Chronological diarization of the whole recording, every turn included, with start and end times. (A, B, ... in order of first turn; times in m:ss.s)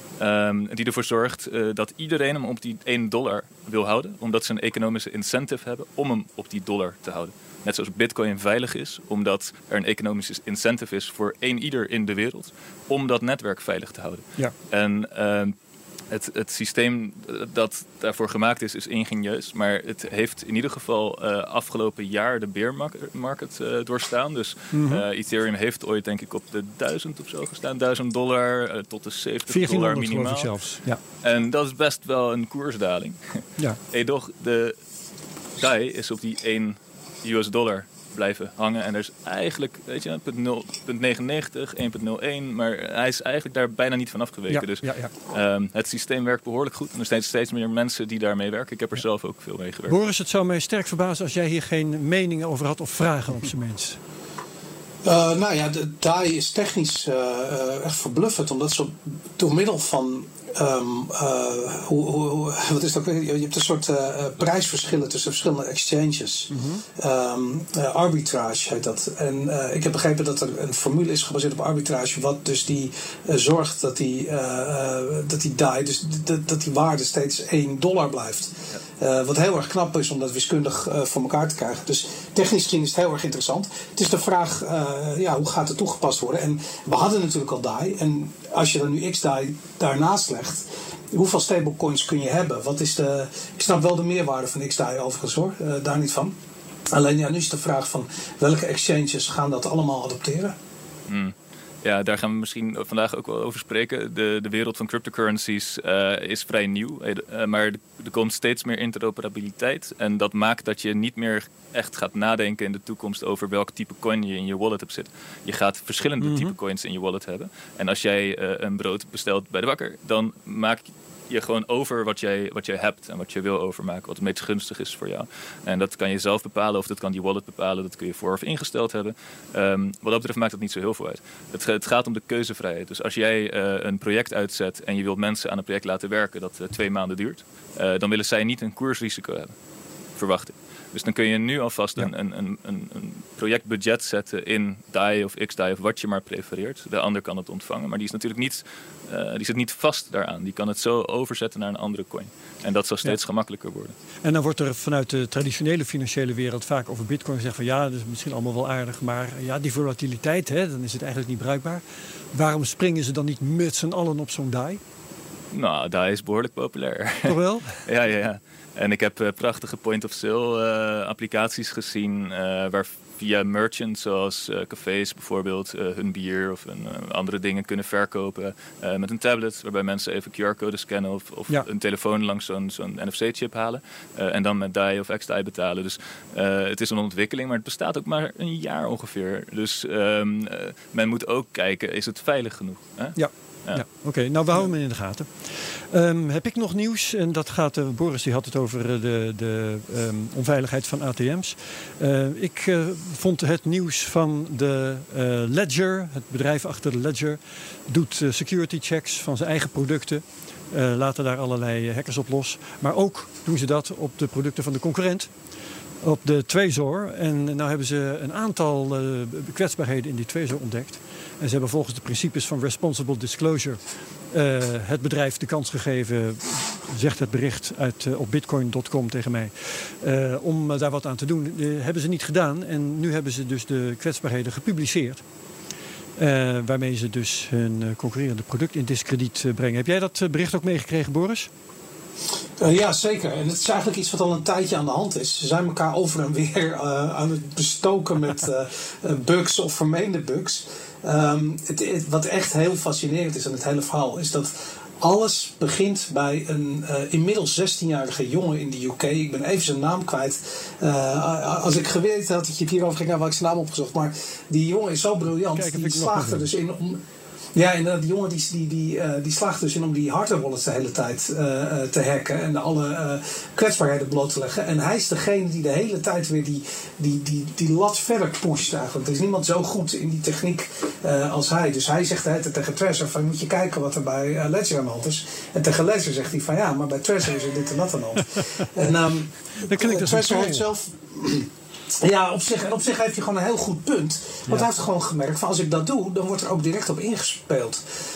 0:00.2-0:15.5 A
0:16.1-0:30.5 A
0:24.7-0:25.0 B
0:29.5-0:31.0 B
0:31.2-0:34.8 A
0:35.6-0:50.0 A
0:44.5-0:45.1 B
0:49.9-0:54.0 B
0:55.0-1:36.4 C
1:06.5-1:06.8 B
1:36.9-1:40.6 C
1:41.1-2:19.5 A
1:56.2-1:56.6 B
2:20.2-2:33.9 A
2:34.2-2:41.8 B
2:42.3-2:44.8 B
2:45.5-3:13.8 A
2:47.2-2:47.8 B
3:13.2-3:35.3 B
3:36.0-3:43.8 B
3:44.3-3:55.2 B
3:56.2-4:01.5 B
4:02.6-4:27.0 C
4:25.5-4:26.5 B
4:27.6-4:57.8 C
4:49.6-4:50.7 B